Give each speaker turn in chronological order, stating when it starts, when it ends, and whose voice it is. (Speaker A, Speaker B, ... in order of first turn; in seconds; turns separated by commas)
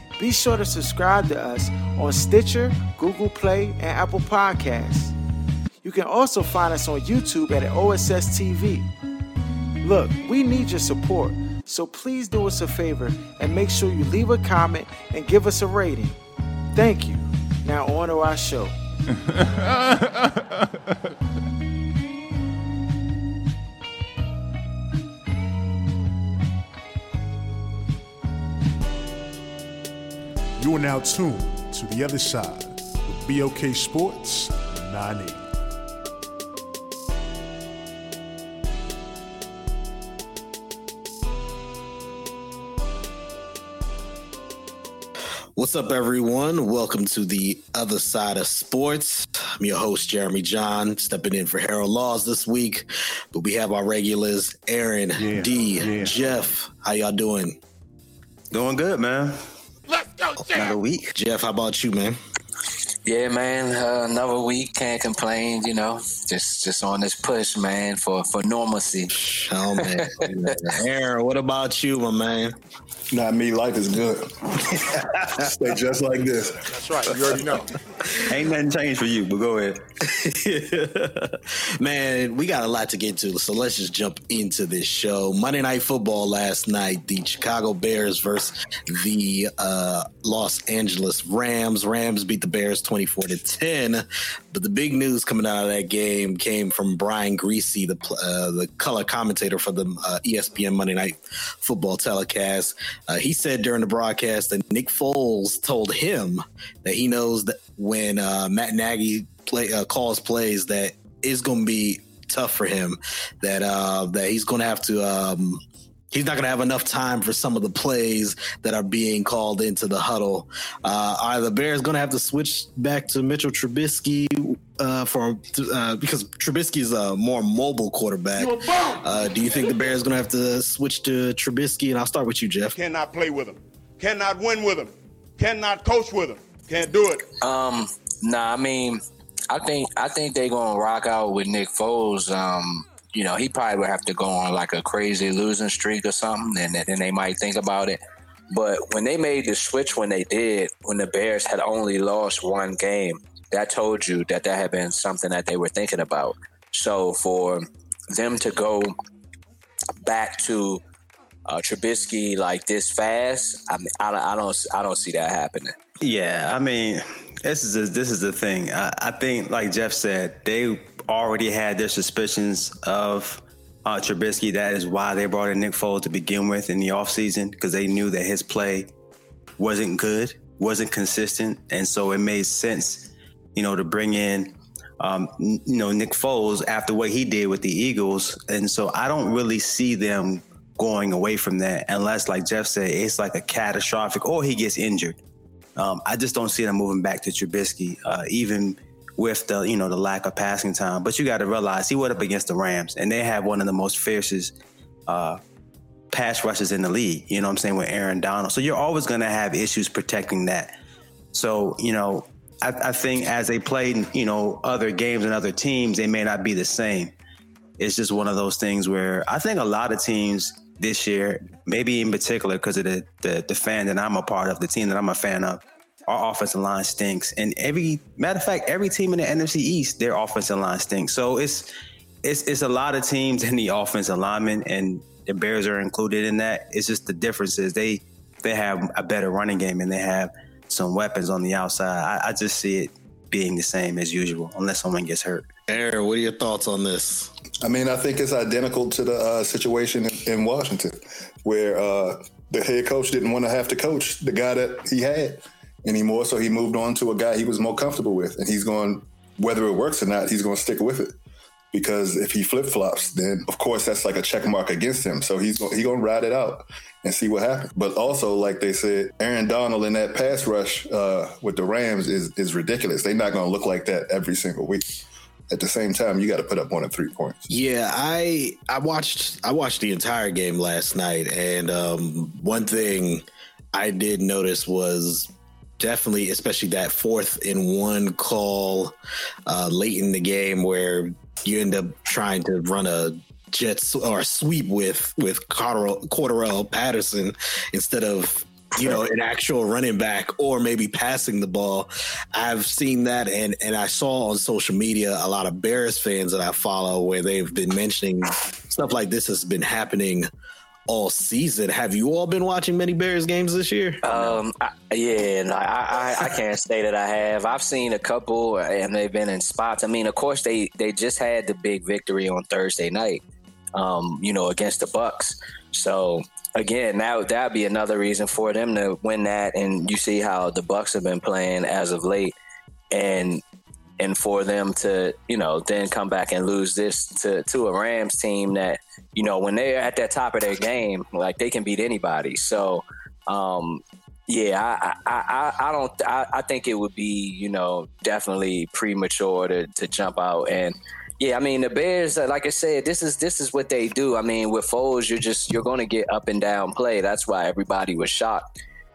Speaker A: 0.2-5.2, Speaker A: 5.8-8.9, Speaker A: 9.8-16.2, Speaker A: 16.8-18.8, Speaker B: 19.5-20.0, Speaker B: 30.6-35.5, Speaker C: 45.5-57.6, Speaker B: 55.2-56.2, Speaker D: 58.5-59.4, Speaker E: 59.9-60.7, Speaker D: 60.5-61.1, Speaker C: 61.1-62.2, Speaker F: 63.1-69.1, Speaker C: 69.1-72.6, Speaker F: 69.8-70.6, Speaker G: 73.1-77.5, Speaker E: 76.8-77.6, Speaker A: 77.1-77.6, Speaker D: 78.2-79.8, Speaker C: 80.0-132.8, Speaker E: 128.3-129.0, Speaker E: 132.7-137.2, Speaker F: 137.4-158.9, Speaker F: 160.0-160.8, Speaker F: 161.5-165.8, Speaker D: 166.0-178.9, Speaker D: 179.6-195.2, Speaker D: 195.8-204.5, Speaker D: 205.1-205.4, Speaker D: 206.1-210.8, Speaker D: 211.3-217.1, Speaker D: 217.8-231.7, Speaker D: 232.2-245.5, Speaker C: 245.7-247.3, Speaker G: 247.6-261.1, Speaker G: 261.7-274.9, Speaker G: 275.5-277.4, Speaker C: 277.5-288.9, Speaker C: 289.5-310.3, Speaker C: 310.9-314.4, Speaker F: 314.0-323.2, Speaker F: 323.7-332.3, Speaker F: 332.9-333.4, Speaker F: 334.0-358.4